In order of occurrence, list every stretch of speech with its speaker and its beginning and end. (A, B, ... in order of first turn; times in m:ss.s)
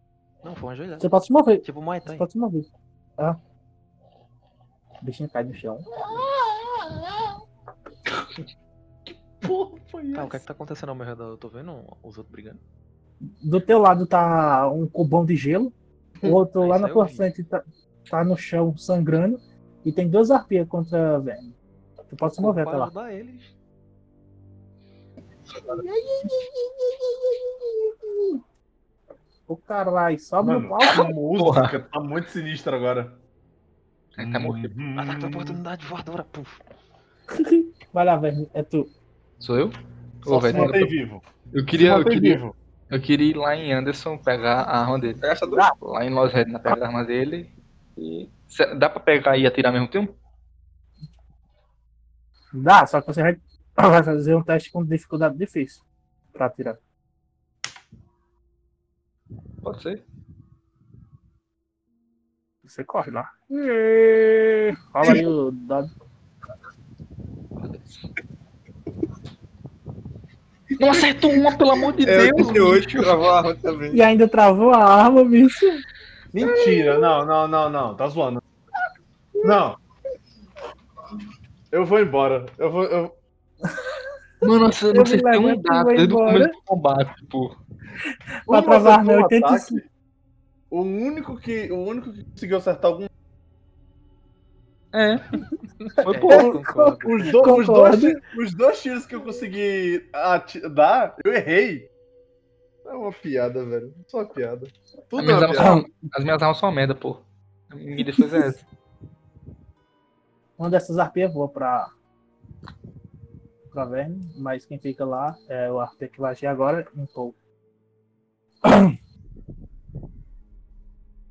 0:00.4-0:01.1 A
0:01.0-0:02.7 B
0:01.6-0:02.3 A
0:05.0-0:05.9 B
0:09.4-0:10.4 C
0:10.1-0:12.6 A
0:13.2-0:21.5 B
0:16.6-0:17.3 A
0:22.1-0:22.9 B
0:22.4-0:23.5 A
0:25.7-0:28.4 B
0:29.5-0:31.1 B
0:30.4-0:33.2 C
0:31.3-0:31.8 D
0:34.2-0:34.7 D
0:34.2-0:35.6 C
0:35.0-0:36.6 A
0:37.4-0:38.9 B
0:39.4-0:40.9 D
0:40.3-0:42.5 C
0:40.4-0:40.8 B
0:41.5-0:42.4 D
0:42.9-0:45.2 D
0:45.2-0:45.7 E
0:45.7-0:50.1 D
0:52.5-0:55.8 B
0:56.3-0:56.8 B
0:59.6-1:00.0 D
1:02.6-1:05.9 B
1:10.8-1:13.1 D
1:12.0-1:14.0 E
1:12.1-1:12.6 C
1:13.9-1:15.8 B
1:16.3-1:18.4 C
1:19.4-1:19.8 C
1:21.7-1:23.1 C
1:24.4-1:27.6 D
1:24.9-1:26.5 B
1:28.5-1:29.8 B
1:28.5-1:29.8 C
1:30.7-1:33.1 C
1:34.9-1:35.3 D
1:35.8-1:37.7 A
1:36.0-1:36.5 D
1:36.3-1:38.2 B
1:37.0-1:41.9 C
1:42.8-1:45.8 C
1:45.2-1:48.6 D
1:45.6-1:45.8 B
1:50.6-1:51.9 B
1:53.7-1:57.4 B
1:58.6-1:58.9 B